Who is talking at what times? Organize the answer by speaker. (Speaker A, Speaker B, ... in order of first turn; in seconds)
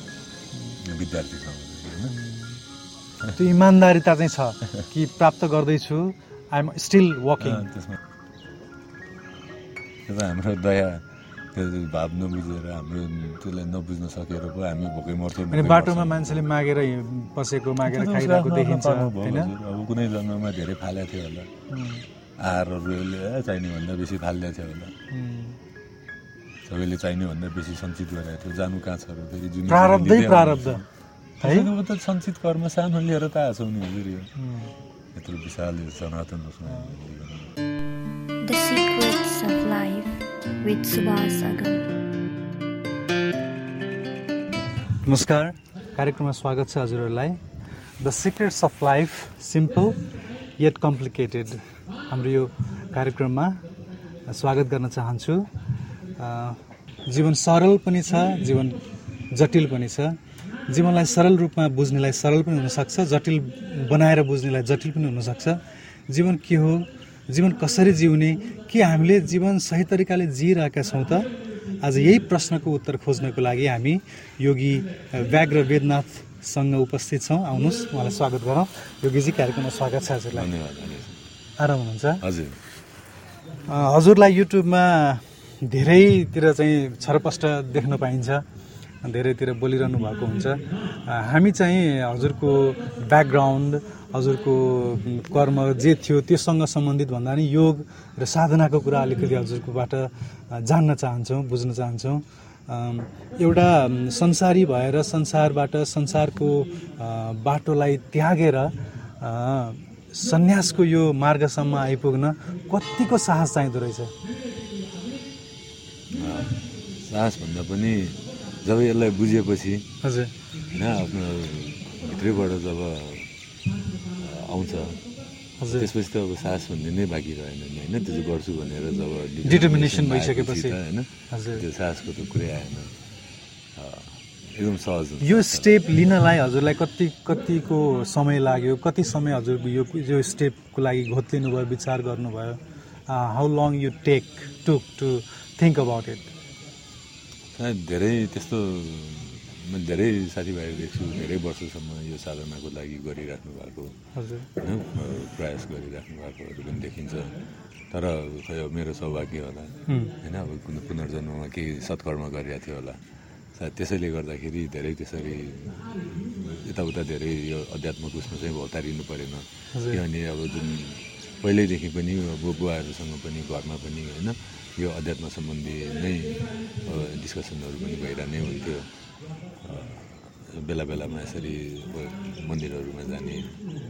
Speaker A: 0.8-2.1, 7.4-8.0, 10.1-16.5, 17.9-21.5, 22.4-24.9, 26.7-30.9, 31.4-34.3, 35.1-37.5, 80.3-81.2, 82.2-82.6, 116.1-119.9, 120.7-123.3, 124.2-125.0, 125.7-133.0, 133.8-135.7, 147.5-154.0, 154.6-157.4, 157.9-163.0, 163.5-178.9, 179.6-183.6
Speaker B: 2.1-2.6, 3.4-7.7, 15.5-19.5, 21.7-22.1, 25.1-25.6, 29.7-30.8, 31.4-31.7, 34.4-34.7, 45.0-47.4, 48.0-50.0, 50.6-53.6, 54.3-55.5, 56.2-71.3, 71.8-80.5, 81.6-82.2, 83.7-88.4, 89.0-114.1, 120.0-120.3, 125.6-125.9, 129.4-130.8, 131.3-131.6, 135.2-146.3, 154.2-154.5, 159.9-160.2, 169.7-170.0
Speaker C: 38.4-41.9